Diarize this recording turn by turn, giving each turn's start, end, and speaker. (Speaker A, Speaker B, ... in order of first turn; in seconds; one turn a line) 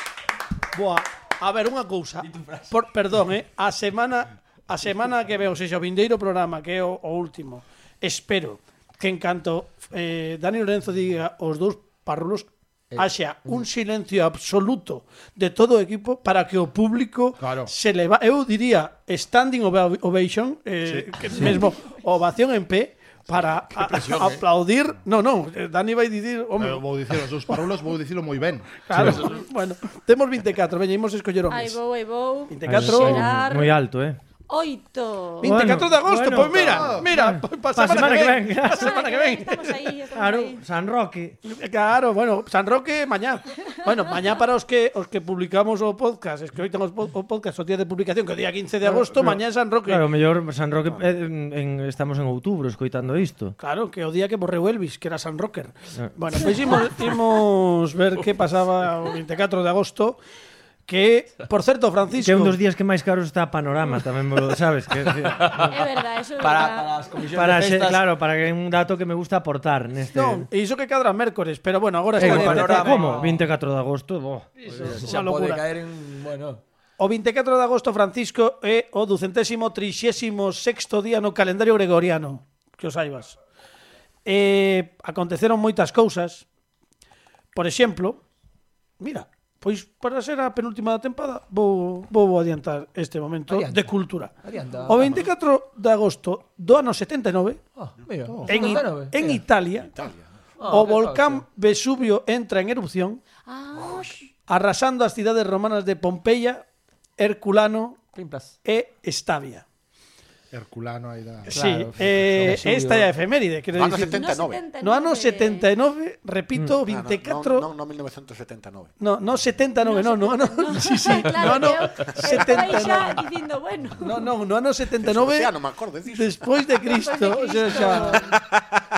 Speaker A: 0.7-26.9
Speaker B: 2.2-2.7
Speaker B: 12.9-13.6
Speaker C: 17.4-17.7
Speaker C: 20.9-21.3
Speaker D: 21.3-21.8
Speaker B: 23.9-24.4
Speaker C: 26.6-29.1
Speaker A: 28.9-31.8
Speaker D: 31.5-33.8
Speaker A: 32.5-33.3
Speaker E: 32.7-34.2
Speaker D: 34.5-35.8
Speaker E: 35.4-39.0
Speaker A: 35.4-39.8
Speaker C: 36.5-37.1
Speaker D: 38.7-40.6
Speaker E: 40.1-41.4
Speaker A: 41.4-50.0
Speaker E: 49.9-53.6
Speaker A: 53.6-60.2
Speaker E: 56.0-56.8
Speaker A: 60.9-62.6
Speaker E: 62.2-65.8
Speaker B: 65.2-65.7
Speaker D: 65.5-67.0
Speaker B: 66.4-68.0
Speaker E: 67.3-70.5
Speaker A: 70.1-73.2
Speaker B: 72.2-73.5
Speaker E: 72.2-74.5
Speaker B: 74.6-76.6
Speaker A: 74.8-75.6
Speaker A: 77.0-83.4
Speaker A: 84.3-86.5
Speaker A: 87.5-88.2
Speaker A: 89.0-94.3
Speaker B: 93.5-93.9
Speaker B: 94.4-95.3
Speaker A: 94.9-97.6
Speaker B: 97.8-99.4
Speaker A: 98.5-99.9
Speaker D: 98.5-98.8
Speaker F: 99.8-100.3
Speaker B: 100.6-101.4
Speaker A: 100.7-103.2
Speaker D: 103.5-104.2
Speaker F: 103.8-104.1
Speaker A: 104.5-106.6
Speaker A: 107.2-108.0
Speaker B: 108.1-108.5
Speaker A: 108.6-109.7
Speaker C: 110.5-111.6
Speaker A: 111.5-114.2
Speaker B: 111.5-113.1
Speaker F: 113.7-114.6
Speaker D: 114.0-115.7
Speaker A: 114.8-117.7
Speaker F: 116.9-118.9
Speaker A: 119.0-123.2
Speaker D: 119.8-124.3
Speaker A: 124.0-125.5
Speaker F: 125.0-126.4
Speaker A: 126.1-128.2
Speaker D: 126.8-128.2
Speaker F: 127.7-128.8